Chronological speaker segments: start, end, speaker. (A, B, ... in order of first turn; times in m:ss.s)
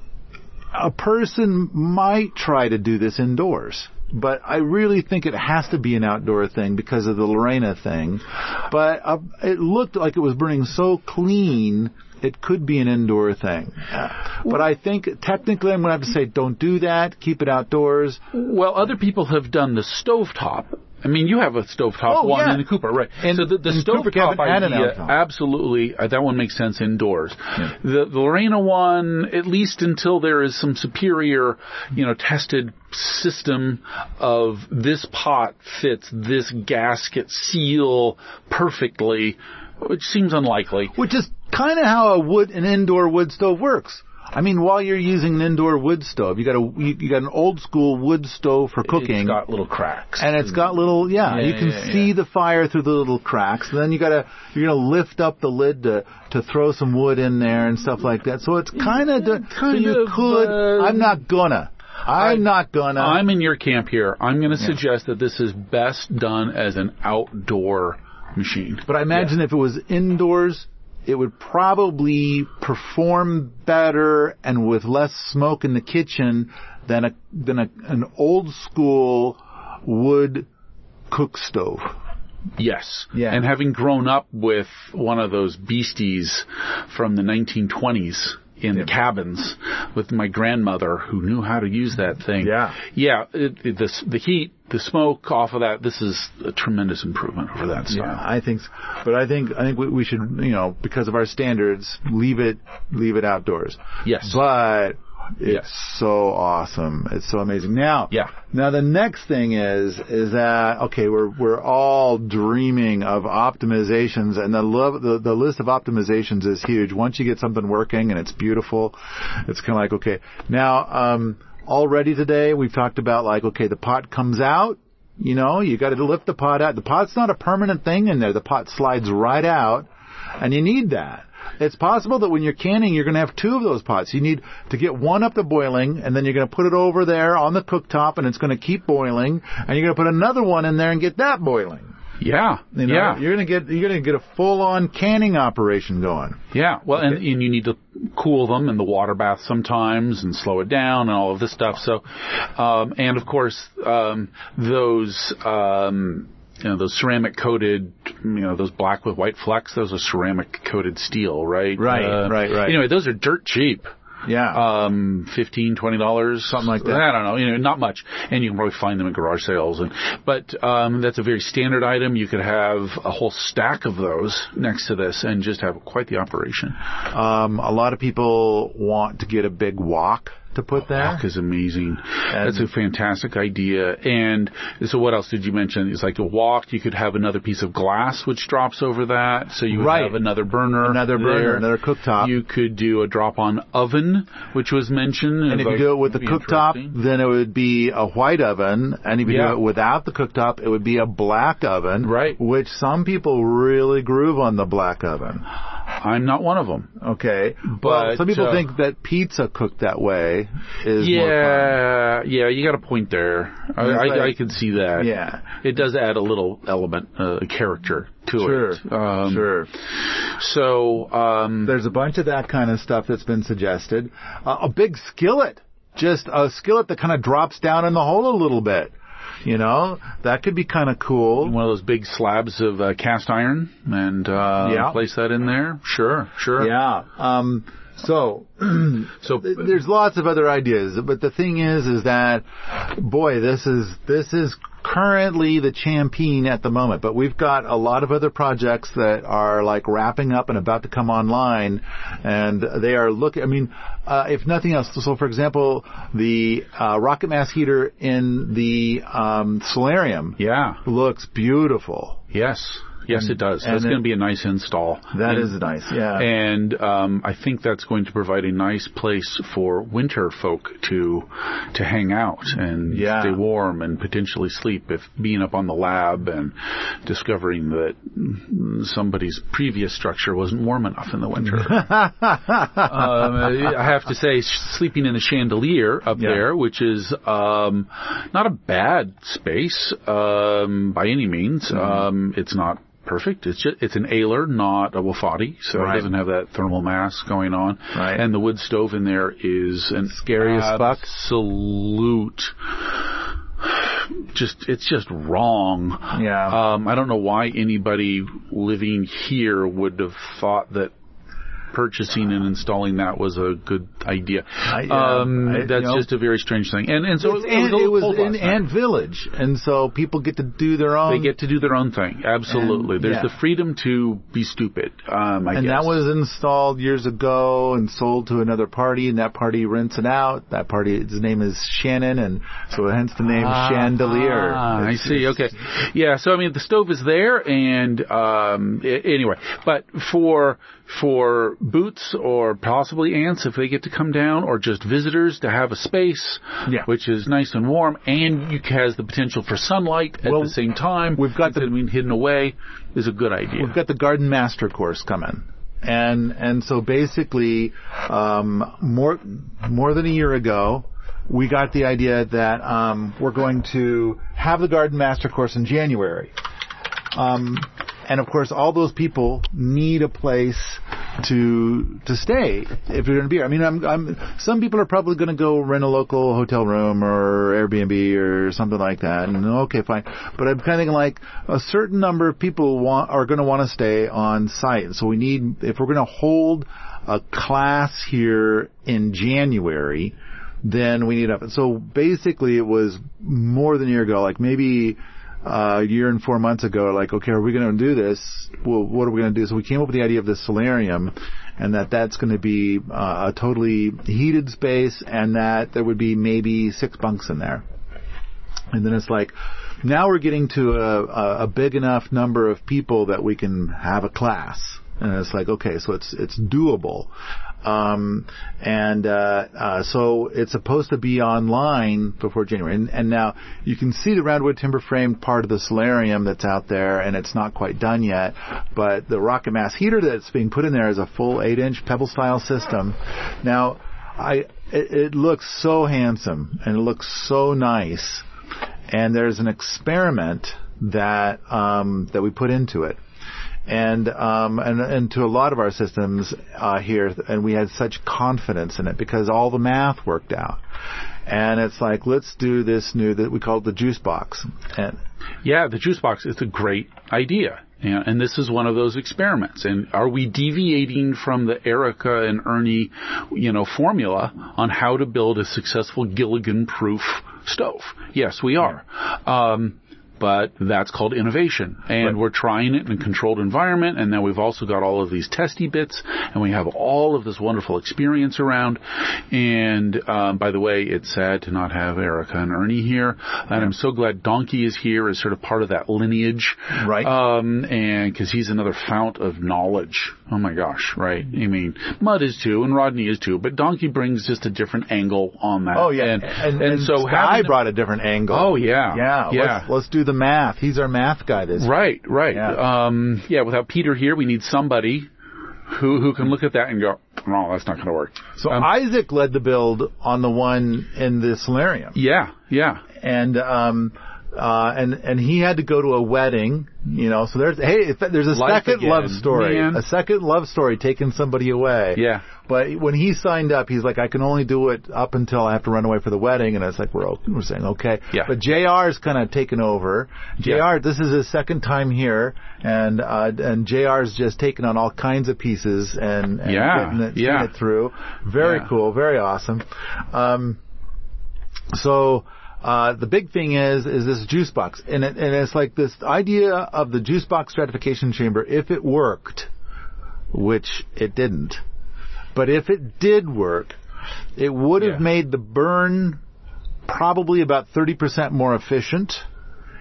0:00.7-0:18.2 A
0:18.3-0:40.9 B
0:22.1-0:25.1 A
0:40.9-0:49.4 A
0:48.8-0:50.6 B
0:50.2-1:03.2 A
0:51.2-0:52.1 B
0:58.8-1:01.2 B
1:02.1-1:02.4 B
1:03.0-1:09.3 B
1:08.9-1:20.5 A
1:21.1-1:21.9 A
1:22.6-1:38.2 B
1:23.1-1:23.4 A
1:32.4-1:32.8 A
1:37.9-2:09.9 A
1:44.0-1:44.4 B
2:10.4-2:21.9 A
2:22.2-2:23.2 B
2:22.7-2:26.4 A
2:26.5-2:43.9 B
2:41.8-2:42.8 A
2:44.2-2:44.6 A
2:44.5-2:56.8 B
2:46.5-2:47.0 A
2:57.1-3:01.2 A
3:00.9-3:11.6 B
3:02.3-3:02.7 A
3:09.7-3:10.2 A
3:10.8-3:12.3 A
3:12.2-3:17.0 B
3:15.5-3:25.5 A
3:19.2-3:19.6 B
3:22.0-3:22.4 B
3:26.0-3:26.9 B
3:27.0-3:31.8 A
3:27.7-3:28.6 B
3:31.0-3:41.7 B
3:33.8-3:35.5 A
3:38.4-3:39.7 A
3:41.6-3:48.9 A
3:49.4-3:51.5 A
3:51.4-3:56.7 B
3:54.6-3:55.0 A
3:56.6-4:22.2 A
3:59.2-3:59.6 B
4:20.4-4:20.8 B
4:22.3-4:25.5 B
4:23.1-4:24.0 A
4:25.1-4:26.3 A
4:26.1-4:41.9 B
4:32.9-4:33.4 A
4:41.7-4:43.0 A
4:42.8-5:03.0 B
4:46.2-4:46.4 A
4:51.7-4:52.0 A
4:55.7-4:56.1 A
4:57.9-4:58.2 A
5:00.3-5:01.0 A
5:03.6-5:10.9 B
5:06.1-5:06.6 A
5:11.7-5:18.6 B
5:14.6-5:16.1 A
5:17.2-5:21.3 A
5:21.1-5:25.9 B
5:22.5-5:23.3 A
5:25.5-5:35.5 A
5:33.2-5:53.7 B
5:50.2-5:50.6 A
5:51.1-5:51.7 A
5:53.6-6:06.3 A
6:07.1-6:47.6 A
6:48.7-6:57.1 A
6:57.6-7:18.2 A
7:18.9-7:23.0 A
7:23.7-7:30.6 A
7:31.3-7:35.0 A
7:35.4-8:17.6 B
8:06.7-8:07.1 A
8:15.7-8:21.7 A
8:18.3-8:19.7 B
8:21.6-8:25.1 B
8:22.3-8:22.6 A
8:25.7-8:28.7 B
8:28.4-8:32.0 A
8:31.9-8:32.8 B
8:33.0-9:00.6 A
8:38.3-8:39.8 B
8:41.9-8:42.2 B
8:56.4-8:57.5 B
8:58.4-8:58.6 B
9:01.7-9:09.5 A
9:10.3-9:11.6 A
9:12.3-9:13.8 A
9:14.4-9:16.2 A
9:16.9-9:19.2 A